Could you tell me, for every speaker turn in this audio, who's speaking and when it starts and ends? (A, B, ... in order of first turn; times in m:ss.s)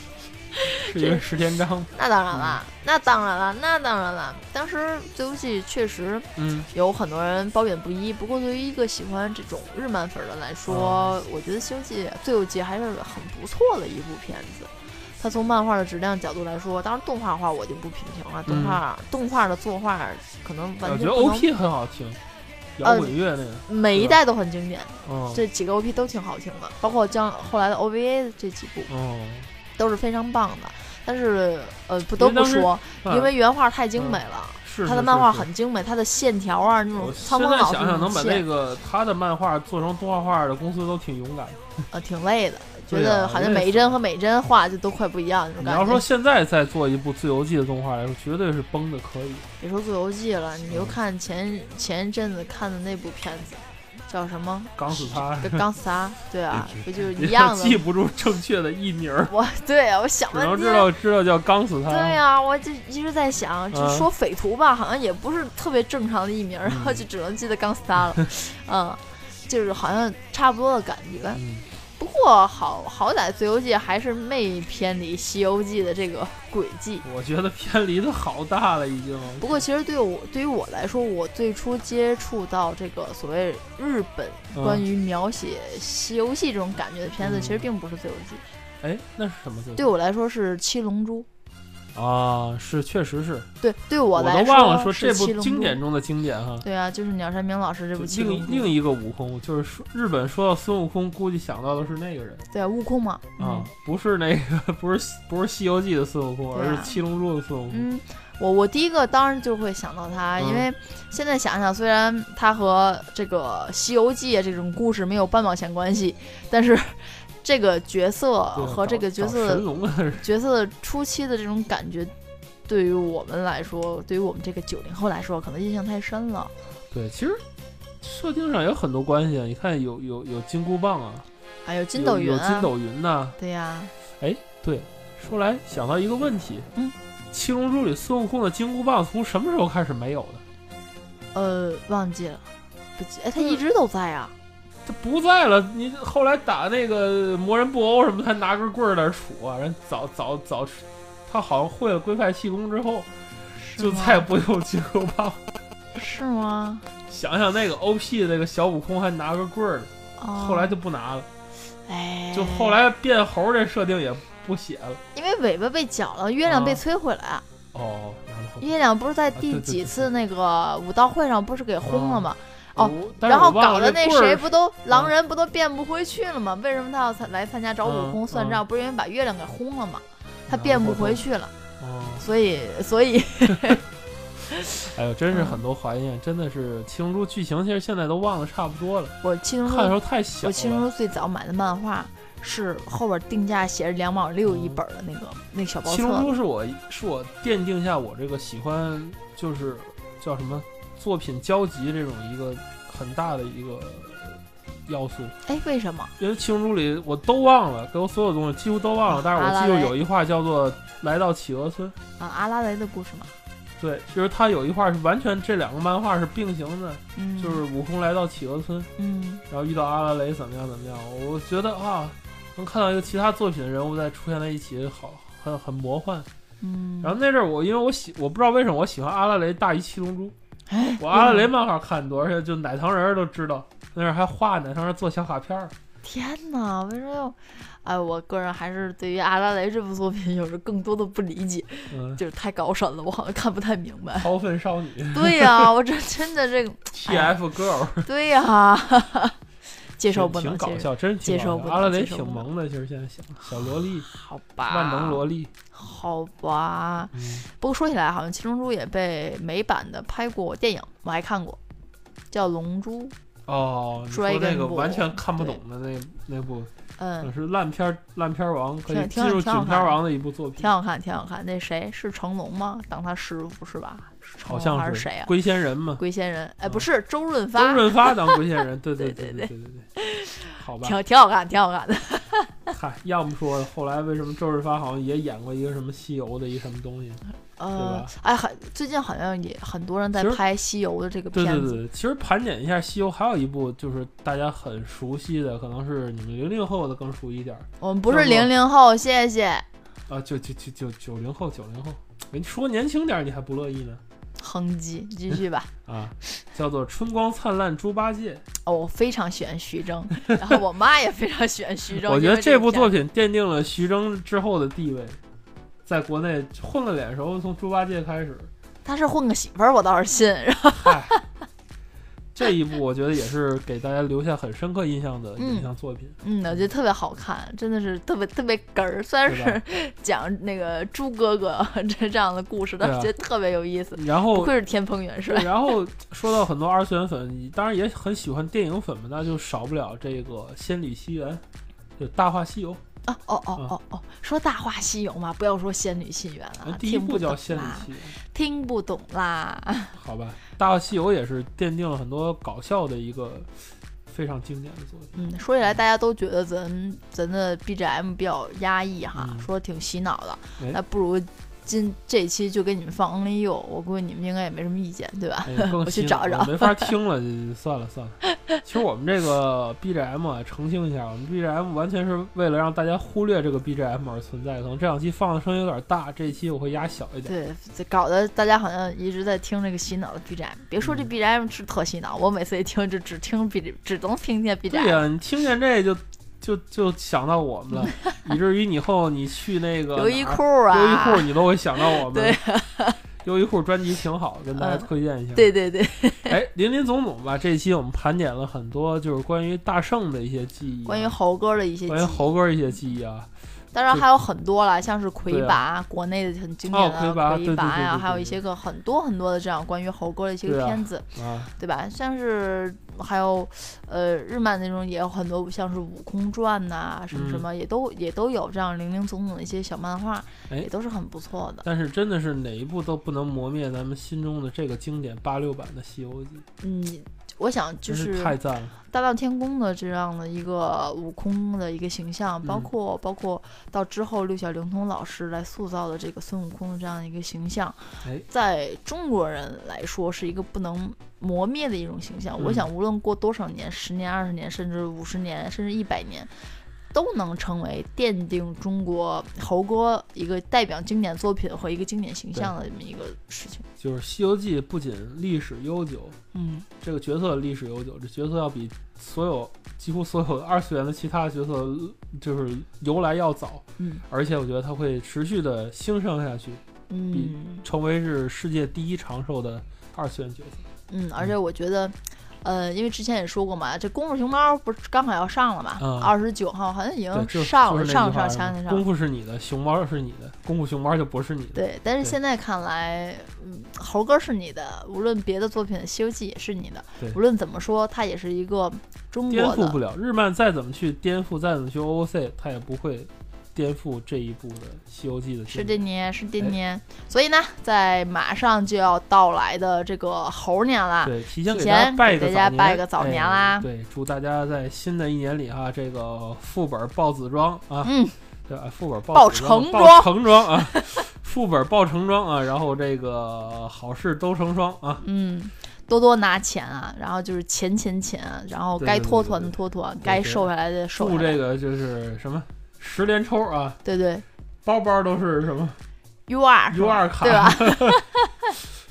0:00.6-0:01.2 A
0:00.8-0:02.6 B
0:01.9-0:21.5 A
0:06.4-0:06.7 B
0:10.7-0:11.1 B
0:18.5-0:18.8 B
0:20.8-0:22.2 B
0:22.8-0:24.2 B
0:22.8-0:28.9 A
0:25.0-0:25.4 B
0:28.9-0:29.5 B
0:29.7-0:38.4 A
0:32.1-0:33.3 B
0:34.0-0:35.5 B
0:37.0-0:41.6 B
0:41.9-0:46.0 A
0:42.9-0:44.0 B
0:45.6-0:49.4 B
0:49.6-0:57.8 A
0:50.7-0:51.0 B
0:54.8-0:55.7 B
0:56.5-0:59.3 B
0:59.2-1:00.9 A
1:00.3-1:02.2 B
1:01.8-1:17.0 A
1:03.7-1:04.1 B
1:06.6-1:07.0 B
1:11.3-1:11.6 B
1:17.0-1:19.6 B
1:19.4-1:28.4 A
1:24.5-1:24.8 B
1:27.2-1:27.7 B
1:28.8-1:29.9 B
1:29.8-1:31.3 A
1:31.9-1:33.5 B
1:33.6-1:35.8 A
1:34.1-1:36.6 B
1:36.6-1:38.7 A
1:38.0-1:42.4 B
1:42.5-1:43.7 A
1:43.4-1:47.9 B
1:46.5-1:47.0 A
1:47.7-2:02.1 A
1:50.4-1:50.7 B
1:58.6-2:00.2 B
2:02.6-2:06.5 A
2:06.9-2:07.4 B
2:08.0-2:11.2 B
2:11.6-2:12.7 A
2:11.9-2:13.4 B
2:13.4-2:13.9 A
2:14.2-2:16.7 B
2:17.3-2:20.4 B
2:21.3-2:24.3 A
2:24.8-2:33.1 B
2:33.5-2:34.3 A
2:33.8-2:35.4 B
2:35.9-2:36.9 A
2:37.1-2:41.3 B
2:40.2-2:40.8 A
2:41.7-2:42.8 A
2:42.3-2:45.0 B
2:45.1-2:47.4 A
2:46.4-2:46.8 B
2:47.7-2:48.7 B
2:48.6-3:01.5 A
2:49.3-2:50.1 B
2:51.8-2:55.1 B
2:57.8-2:58.6 B
3:00.5-3:01.2 B
3:01.8-3:02.2 B
3:02.2-3:03.8 A
3:04.5-3:04.8 A
3:04.8-3:10.9 B
3:05.3-3:05.6 A
3:09.2-3:16.3 A
3:14.4-3:14.8 B
3:15.8-3:25.4 B
3:25.4-3:26.1 A
3:26.2-3:32.0 B
3:29.1-3:30.0 A
3:32.2-3:33.3 A
3:33.8-3:38.9 B
3:37.1-3:37.6 A
3:39.0-3:39.4 A
3:39.5-3:46.3 B
3:46.6-3:47.2 A
3:47.0-3:50.3 B
3:50.7-3:51.5 A
3:51.0-3:55.7 B
3:56.0-4:04.3 A
4:01.9-4:02.2 B
4:04.1-4:05.7 B
4:05.1-4:07.3 A
4:06.9-4:08.1 B
4:08.0-4:12.4 A
4:10.1-4:14.1 B
4:14.0-4:21.6 A
4:14.7-4:15.5 B
4:17.1-4:17.5 B
4:22.3-4:23.1 A
4:23.4-4:26.7 B
4:24.1-4:25.6 A
4:27.0-4:27.3 A
4:27.2-4:30.7 B
4:28.9-4:30.0 A
4:30.6-4:35.3 A
4:34.4-4:36.0 B
4:36.0-4:38.2 A
4:37.5-4:39.9 B
4:39.0-4:42.7 A
4:40.5-4:41.0 B
4:42.7-4:47.2 B
4:47.6-4:51.8 A
4:47.8-4:48.1 B
4:50.1-4:50.4 B
4:51.3-4:58.5 B
4:57.8-4:59.6 A
5:00.1-5:04.0 B
5:04.4-5:05.7 A
5:05.8-5:08.4 B
5:08.6-5:12.9 A
5:11.9-5:15.2 B
5:15.8-5:18.5 B
5:18.8-5:21.2 A
5:20.7-5:21.2 B
5:22.3-5:26.7 B
5:25.4-5:35.5 A
5:29.3-5:29.6 B
5:32.8-5:33.1 B
5:33.9-5:34.5 B
5:35.2-5:41.4 B
5:42.0-5:42.8 B
5:43.0-5:50.0 A
5:46.6-5:48.2 B
5:49.9-5:53.5 B
5:54.1-5:55.2 B
5:55.1-6:06.9 A
5:59.2-5:59.5 B
6:05.4-6:17.3 B
6:17.2-6:25.0 A
6:20.8-6:21.1 B
6:24.7-6:32.4 B
6:29.9-6:33.0 A
6:33.2-6:35.5 B
6:34.6-6:36.4 A
6:36.3-6:41.2 B
6:40.8-6:42.3 A
6:41.9-6:43.3 B
6:43.7-7:01.6 A
6:45.3-6:45.6 B
6:46.7-6:48.4 B
6:50.4-6:51.5 B
6:57.1-6:57.4 B
7:01.6-7:06.4 B
7:06.6-7:26.3 A
7:07.9-7:08.7 B
7:12.4-7:12.7 B
7:22.4-7:22.7 B
7:26.9-7:33.6 A
7:33.8-7:36.2 B
7:36.3-7:36.7 A
7:36.8-7:46.6 B
7:43.8-7:44.0 A
7:46.9-7:47.6 A
7:47.1-7:50.6 B
7:50.9-7:58.8 A
7:55.8-7:56.1 B
7:57.1-8:02.2 B
8:01.5-8:09.8 A
8:09.3-8:15.8 B
8:15.5-8:23.7 A
8:21.0-8:27.9 B
8:27.8-8:28.2 A
8:28.5-8:35.0 B
8:29.1-8:31.0 A
8:35.0-8:41.4 A
8:38.8-8:43.8 B
8:43.8-8:44.2 A
8:44.6-8:45.8 B
8:46.3-8:48.4 A
8:46.7-8:48.0 B